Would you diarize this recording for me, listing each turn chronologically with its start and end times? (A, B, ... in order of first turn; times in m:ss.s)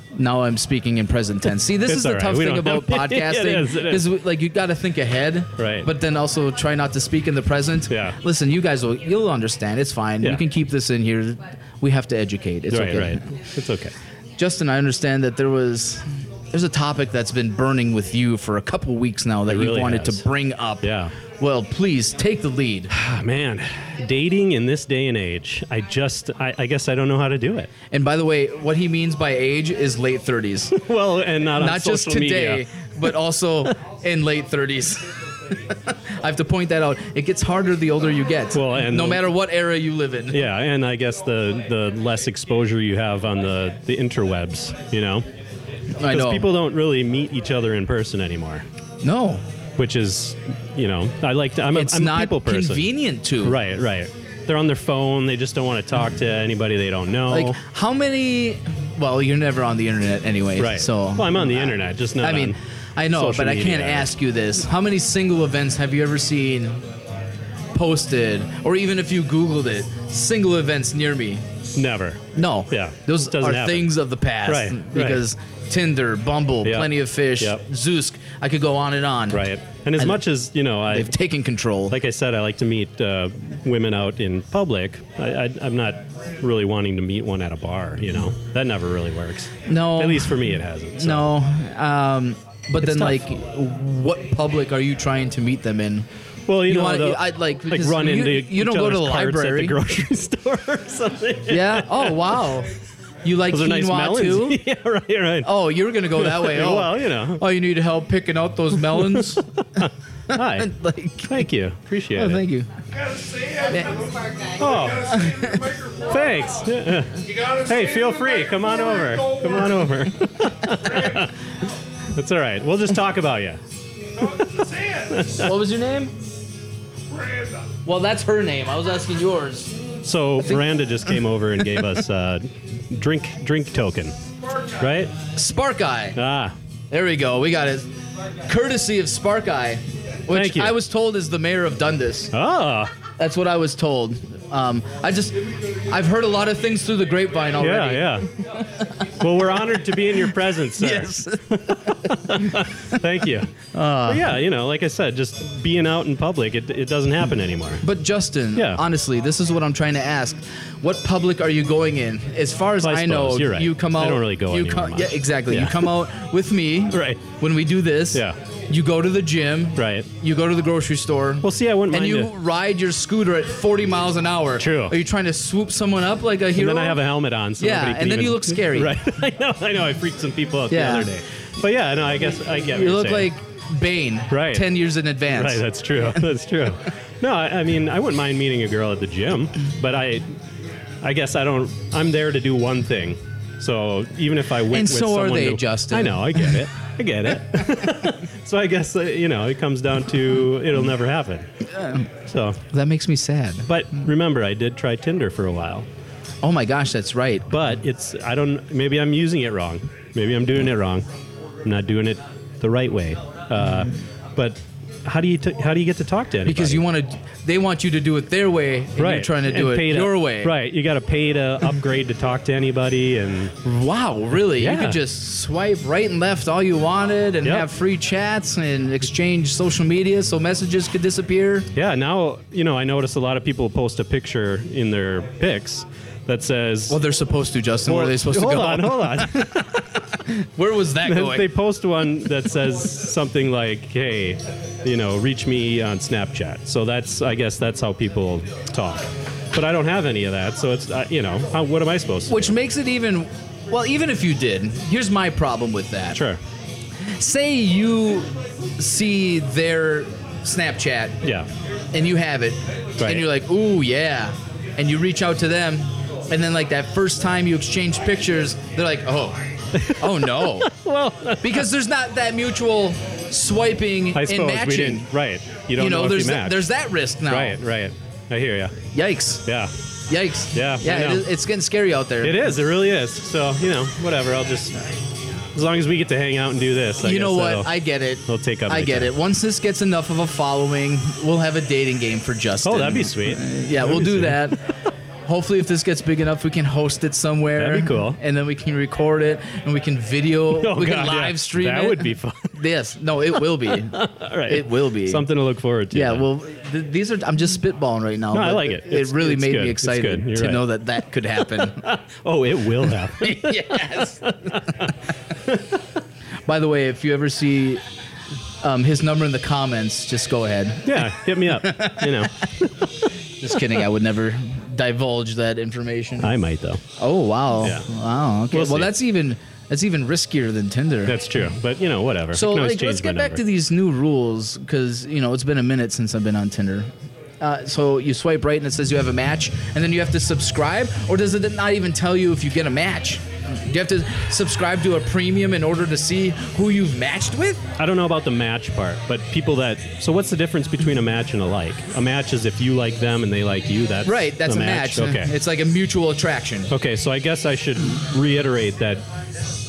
0:00.2-0:13.4 A
0:01.8-0:04.1 B
0:05.6-0:05.9 B
0:07.9-0:08.2 B
0:12.7-0:13.9 B
0:14.4-0:22.9 A
0:19.5-0:20.2 B
0:20.8-0:21.1 B
0:22.9-0:27.7 B
0:27.9-0:30.7 A
0:30.7-0:32.6 B
0:31.6-0:35.1 A
0:36.2-0:40.4 A
0:38.5-0:39.3 B
0:40.3-0:45.2 B
0:46.0-0:46.5 A
0:46.1-0:48.6 B
0:49.0-0:49.4 A
0:49.8-0:52.8 B
0:51.7-0:53.6 A
0:53.4-0:57.6 B
0:57.3-1:06.8 A
1:00.6-1:02.6 B
1:03.1-1:04.1 B
1:07.7-1:11.4 A
1:11.8-1:13.9 B
1:12.3-1:20.2 A
1:14.4-1:15.2 B
1:16.6-1:17.6 B
1:19.3-1:21.2 B
1:20.9-1:22.0 A
1:21.9-1:31.3 B
1:29.7-1:30.4 A
1:31.0-1:36.1 A
1:32.8-1:33.2 B
1:36.5-1:42.5 B
1:36.6-1:39.8 A
1:41.5-1:42.7 A
1:43.2-1:44.6 A
1:43.5-1:45.6 B
1:45.4-1:51.5 A
1:46.1-1:47.4 B
1:48.7-1:50.7 B
1:51.3-1:52.4 B
1:52.1-1:52.7 A
1:53.5-1:54.0 A
1:54.6-1:55.2 B
1:55.0-1:55.8 A
1:56.0-2:01.3 B
2:02.2-2:03.6 B
2:04.2-2:05.5 B
2:05.3-2:06.1 A
2:07.8-2:09.8 A
2:10.0-2:14.1 B
2:14.8-2:15.1 B
2:15.3-2:16.2 A
2:16.2-2:16.5 B
2:16.9-2:17.9 A
2:18.5-2:22.3 A
2:20.3-2:20.8 B
2:22.3-2:22.9 B
2:23.2-2:28.2 A
2:27.6-2:28.3 B
2:29.2-2:33.5 B
2:30.8-2:32.6 A
2:33.7-2:34.3 A
2:34.1-2:37.8 B
2:37.8-2:57.0 A
2:38.6-2:38.8 B
2:42.8-2:45.9 B
2:46.9-2:47.2 B
2:49.8-2:50.1 B
2:51.4-2:52.3 B
2:54.6-2:55.0 B
2:56.6-3:03.3 B
2:57.6-2:59.0 A
3:00.7-3:01.1 A
3:02.7-3:06.3 A
3:04.3-3:04.7 B
3:05.3-3:10.2 B
3:11.0-3:21.4 B
3:14.7-3:16.6 A
3:21.7-3:22.1 A
3:22.3-3:22.6 B
3:22.7-3:23.7 A
3:23.6-3:25.8 B
3:26.4-3:27.7 A
3:27.5-3:31.0 B
3:31.6-3:36.8 B
3:36.4-3:40.5 A
3:39.0-3:43.5 B
3:43.6-3:51.7 A
3:44.5-3:45.0 B
3:51.7-3:57.0 B
3:56.9-3:59.6 A
3:57.8-4:00.0 B
4:00.1-4:01.5 A
4:01.0-4:12.5 B
4:12.3-4:16.2 A
4:16.1-4:16.4 B
4:17.2-4:21.2 A
4:21.2-4:21.5 B
4:21.9-4:30.7 A
4:23.0-4:23.3 B
4:29.8-4:31.7 B
4:31.4-4:35.1 A
4:34.1-4:36.7 B
4:35.8-4:37.6 A
4:37.3-4:38.8 B
4:38.9-4:39.4 A
4:39.4-4:39.7 B
4:40.1-4:42.4 A
4:40.5-4:41.3 B
4:42.2-4:44.7 B
4:45.6-4:47.7 B
4:47.0-4:54.6 A
4:48.3-4:49.1 B
4:52.6-4:54.5 B
4:55.2-5:05.2 A
4:57.6-4:58.2 B
5:00.5-5:02.5 B
5:03.6-5:06.2 B
5:05.9-5:11.8 A
5:08.3-5:10.6 B
5:11.4-5:14.9 B
5:13.1-5:14.5 A
5:16.4-5:17.8 A
5:18.6-5:22.1 A
5:20.8-5:22.5 B
5:23.4-5:26.3 A
5:26.2-5:26.8 B
5:27.0-5:31.2 A
5:27.6-5:27.9 B
5:28.5-5:28.9 B
5:31.0-5:33.4 B
5:32.3-5:36.9 A
5:37.4-5:47.6 A
5:47.8-5:55.3 B
5:54.0-5:56.7 A
5:56.7-5:59.0 B